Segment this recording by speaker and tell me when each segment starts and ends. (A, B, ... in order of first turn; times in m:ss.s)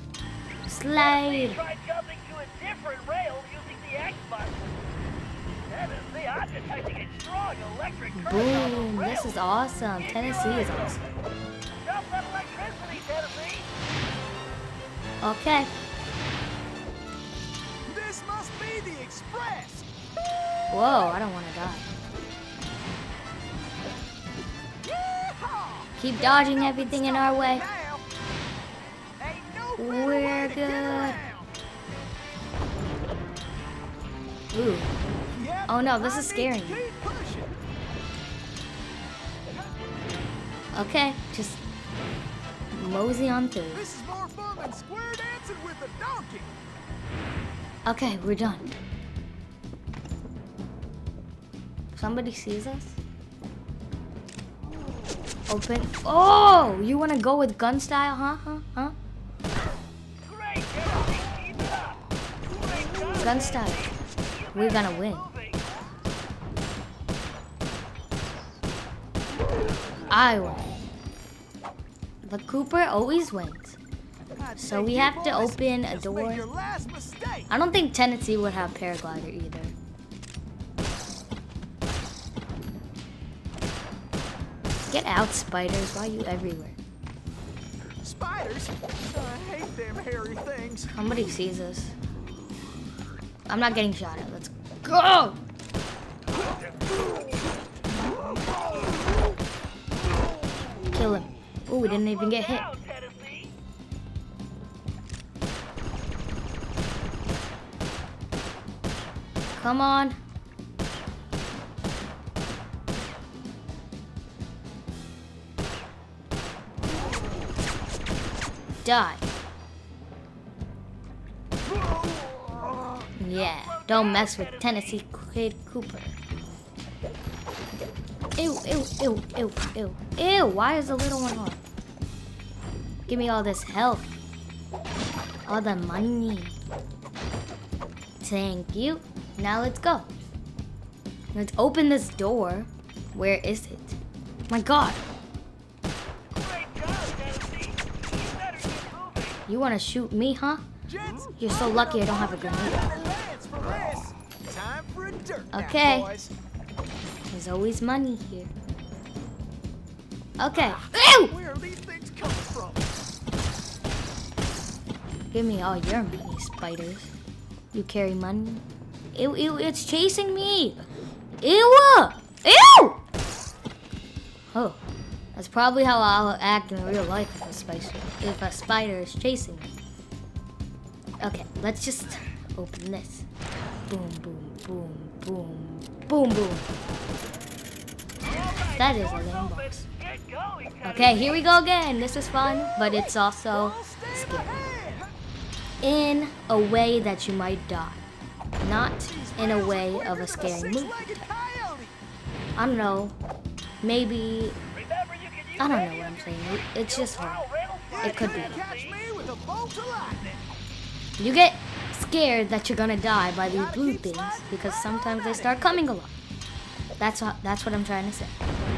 0:00.7-0:01.6 A
0:01.0-0:04.7 B
0:05.7-0:09.3 B
0:08.1-0:11.1 A
0:10.0-0:11.0 B
0:11.8-0:13.7 B
0:15.2-0:15.7 A
0:17.9-0:19.9 C
0:20.7-0:21.9 A
0:24.8-0:28.0 C
0:26.0-0:27.6 A
0:29.2-0:31.5 C
0:29.8-0:31.2 A
0:34.5-0:34.9 A
0:35.3-0:37.6 C
0:35.7-0:36.8 A
0:40.7-0:41.6 A
0:42.7-0:43.8 A
0:43.7-0:46.6 C
0:47.9-0:48.7 A
0:51.9-0:53.0 A
0:55.5-0:59.0 A
1:00.2-1:02.0 B
1:02.6-1:03.8 B
1:03.1-1:04.0 A
1:04.4-1:05.6 B
1:04.5-1:05.3 A
1:10.1-1:10.7 A
1:12.2-1:13.8 A
1:14.4-1:17.5 C
1:14.6-1:16.5 A
1:17.5-1:19.7 A
1:24.9-1:26.8 A
1:28.0-1:31.0 C
1:30.9-1:32.0 A
1:33.5-1:35.4 A
1:40.9-1:42.7 A
1:42.0-1:43.5 B
1:49.6-1:50.2 A
1:58.8-1:59.2 A
2:03.2-2:06.2 A
2:03.3-2:05.0 B
2:08.4-2:11.6 A
2:13.1-2:14.1 A
2:15.5-2:16.6 A
2:18.2-2:20.1 A
2:21.3-2:24.0 A
2:24.5-2:25.0 A
2:26.3-2:29.4 B
2:29.5-2:30.6 A
2:30.9-2:36.3 C
2:31.4-2:32.9 A
2:35.5-2:36.1 A
2:37.3-2:38.5 A
2:40.4-2:41.3 A
2:40.5-2:42.9 C
2:45.3-2:47.1 A
2:47.7-2:48.6 A
2:49.2-2:50.8 A
2:51.4-2:53.0 A
2:54.5-2:54.8 A
2:55.4-2:59.7 A
3:01.2-3:03.3 A
3:03.9-3:06.7 A
3:08.2-3:11.5 B
3:08.8-3:09.9 A
3:10.8-3:14.5 A
3:12.8-3:15.1 C
3:15.8-3:18.0 A
3:18.6-3:21.3 A
3:19.0-3:22.0 C
3:22.6-3:23.2 A
3:23.8-3:24.6 A
3:24.7-3:29.0 B
3:25.6-3:27.4 A
3:27.9-3:30.4 C
3:28.0-3:28.6 A
3:31.2-3:36.1 A
3:33.5-3:35.8 C
3:37.0-3:38.4 A